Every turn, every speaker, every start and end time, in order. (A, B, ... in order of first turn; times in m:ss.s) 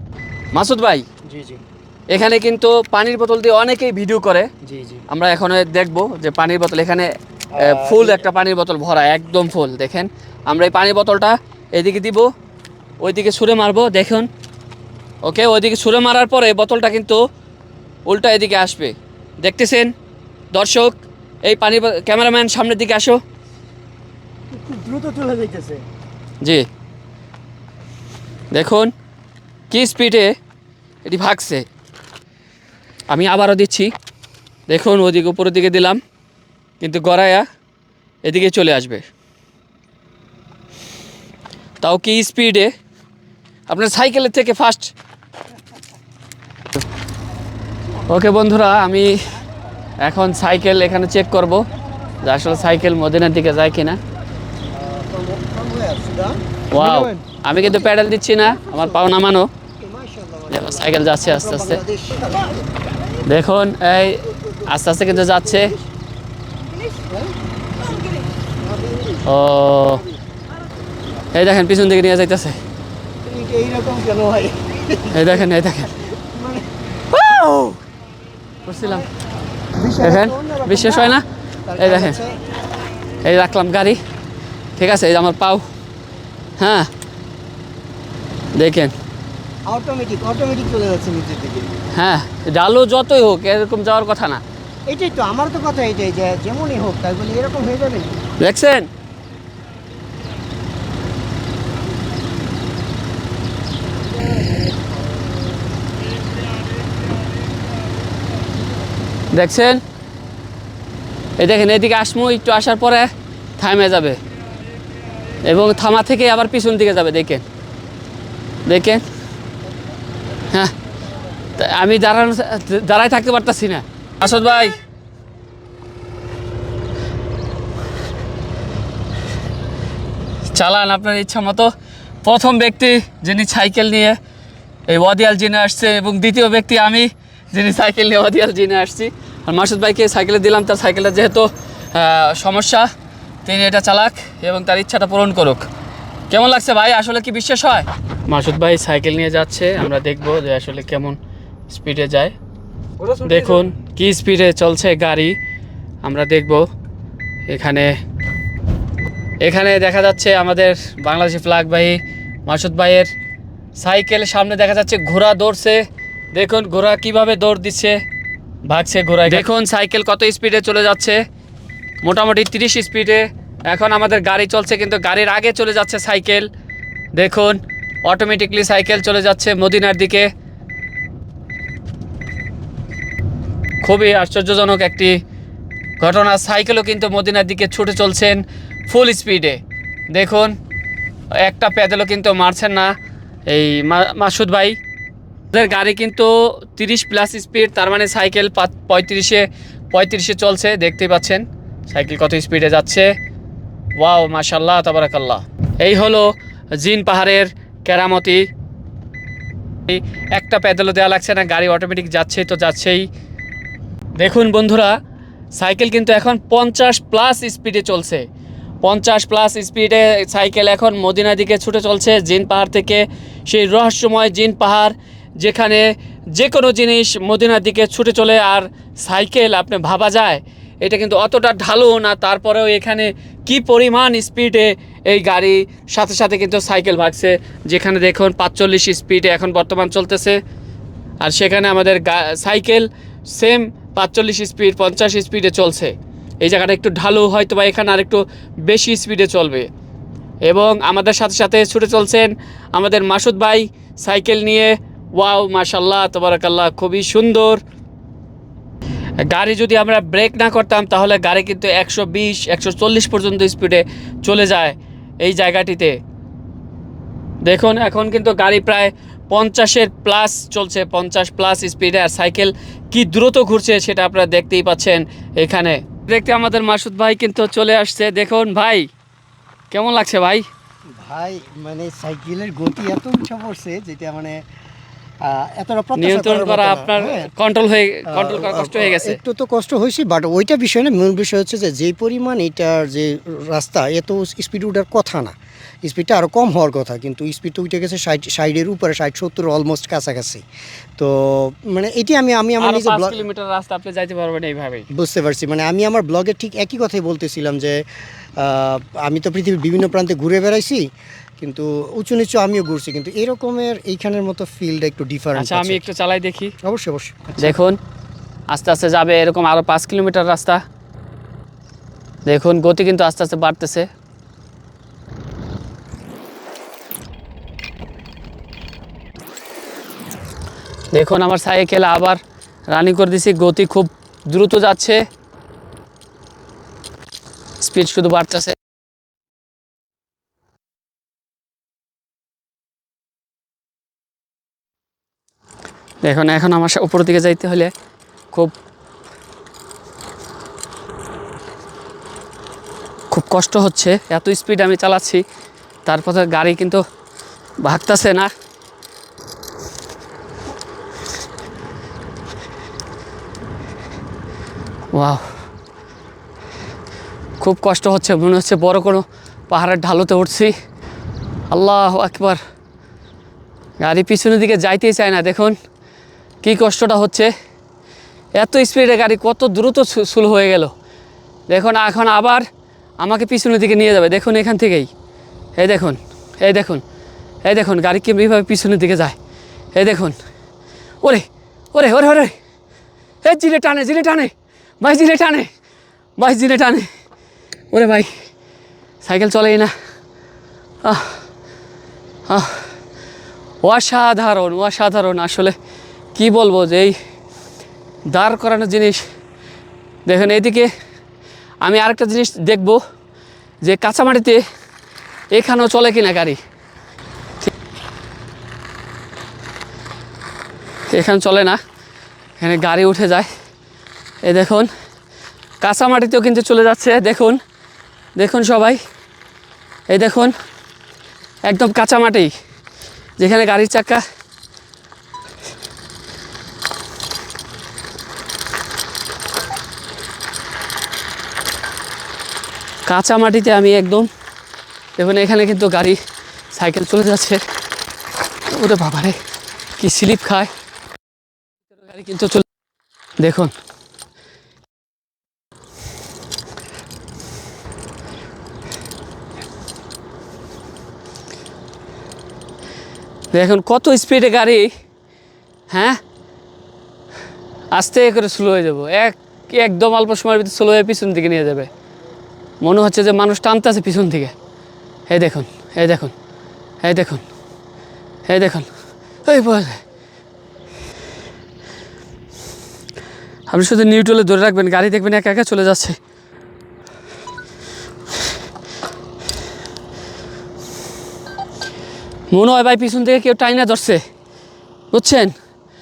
0:00.5-0:01.0 A
0:01.3-0:01.6 B
0:02.1-0:04.5 A
0:04.6-0:05.0 B
0:05.1-0:12.3 A
0:07.5-0:08.2 B
0:13.0-0:14.3 A
0:15.2-0:17.2 A
0:18.1-0:19.9 A
0:20.5-0:23.2 A
0:24.5-0:25.8 B
0:28.5-0:28.9 A
0:29.7-0:30.3 A
0:31.0-0:31.6 A
0:33.1-0:33.9 A
0:34.7-0:36.0 A
0:36.8-0:37.5 A
0:38.2-0:39.0 A
0:41.8-0:42.7 A
0:43.7-0:44.9 A
0:48.1-0:49.4 A
0:50.0-0:51.6 A
0:52.2-0:54.0 A
0:54.7-0:59.2 B
0:56.7-0:59.5 A
0:59.8-1:02.6 B
1:00.5-1:01.8 A
1:03.2-1:05.7 A
1:04.2-1:05.9 B
1:06.9-1:09.3 B
1:09.3-1:10.0 A
1:11.3-1:12.6 A
1:13.2-1:17.8 B
1:15.1-1:15.9 A
1:18.6-1:19.1 A
1:18.8-1:19.0 B
1:19.7-1:21.2 B
1:20.0-1:21.2 A
1:21.7-1:22.4 B
1:21.8-1:22.2 A
1:23.2-1:24.0 A
1:24.8-1:25.7 A
1:26.6-1:26.9 A
1:28.6-1:28.9 A
1:29.7-1:31.7 B
1:32.0-1:34.4 A
1:34.9-1:38.1 B
1:38.4-1:38.9 A
1:49.3-1:49.8 A
1:51.4-1:54.2 A
1:55.5-1:57.4 A
1:58.7-1:59.0 A
2:01.6-2:04.8 A
2:10.5-2:11.7 A
2:12.2-2:14.2 A
2:14.9-2:22.9 A
2:23.4-2:25.7 A
2:26.3-2:31.2 A
2:31.7-2:32.4 A
2:33.2-2:35.4 A
2:36.0-2:36.7 A
2:37.5-2:37.9 A
2:39.4-2:43.1 A
2:43.8-2:48.0 A
2:48.7-2:51.2 A
2:52.0-2:56.5 A
2:57.2-3:00.3 A
3:03.8-3:05.2 A
3:06.0-3:09.6 A
3:10.1-3:10.6 A
3:11.4-3:12.9 A
3:13.5-3:14.8 A
3:15.5-3:23.1 A
3:24.0-3:28.4 A
3:29.9-3:33.1 A
3:34.2-3:35.0 A
3:35.6-3:38.3 A
3:38.8-4:00.4 A
4:01.2-4:09.7 A
4:10.5-4:17.6 A
4:19.2-4:26.0 A
4:27.4-4:38.9 A
4:39.7-4:40.5 A
4:41.0-4:44.4 B
4:45.2-4:47.3 B
4:46.0-4:49.2 A
4:48.1-5:00.4 B
5:01.0-5:03.2 B
5:02.6-5:04.9 A
5:04.9-5:07.8 B
5:08.4-5:10.8 B
5:11.4-5:15.9 B
5:15.4-5:16.5 A
5:16.6-5:17.6 B
5:17.4-5:17.8 A
5:18.5-5:20.6 A
5:22.3-5:23.9 A
5:30.9-5:32.2 A
5:32.7-5:35.0 A
5:37.6-5:38.6 A
5:46.0-5:47.7 A
5:53.1-5:55.2 A
5:55.9-5:56.8 A
5:57.6-5:58.3 A
6:04.9-6:05.2 A
6:07.4-6:10.6 A
6:11.5-6:12.4 A
6:13.8-6:15.6 A
6:16.4-6:17.3 A
6:18.4-6:20.7 A
6:21.5-6:22.4 A
6:23.0-6:24.9 A
6:25.6-6:26.8 A
6:27.4-6:29.2 A
6:29.7-6:30.2 A
6:31.0-6:32.4 A
6:33.2-6:35.5 A
6:36.2-6:36.9 A
6:37.7-6:38.1 A
6:39.0-6:39.7 A
6:40.8-6:41.2 A
6:42.3-6:42.7 A
6:43.6-6:45.6 A
6:46.2-6:47.0 A
6:48.1-6:49.0 A
6:50.1-6:50.7 A
6:51.6-6:52.8 A
6:53.6-6:54.4 A
6:55.3-6:56.4 A
7:00.9-7:01.6 A
7:02.4-7:03.3 A
7:04.2-7:04.7 A
7:05.6-7:07.4 A
7:08.2-7:08.8 A
7:09.9-7:10.3 A
7:11.5-7:12.3 A
7:13.2-7:14.0 A
7:22.9-7:24.1 A
7:25.0-7:26.0 A
7:26.5-7:27.4 A
7:28.5-7:29.2 A
7:29.8-7:30.5 A
7:31.8-7:32.5 A
7:33.2-7:33.5 A
7:43.3-7:44.7 A
7:45.7-7:46.0 A
7:47.7-7:51.7 A
7:52.6-7:54.3 A
7:55.1-7:56.1 A
7:56.8-7:57.2 A
7:58.3-7:58.7 A
7:59.3-7:59.8 A
8:03.5-8:06.0 A
8:12.3-8:14.0 A
8:14.9-8:15.3 A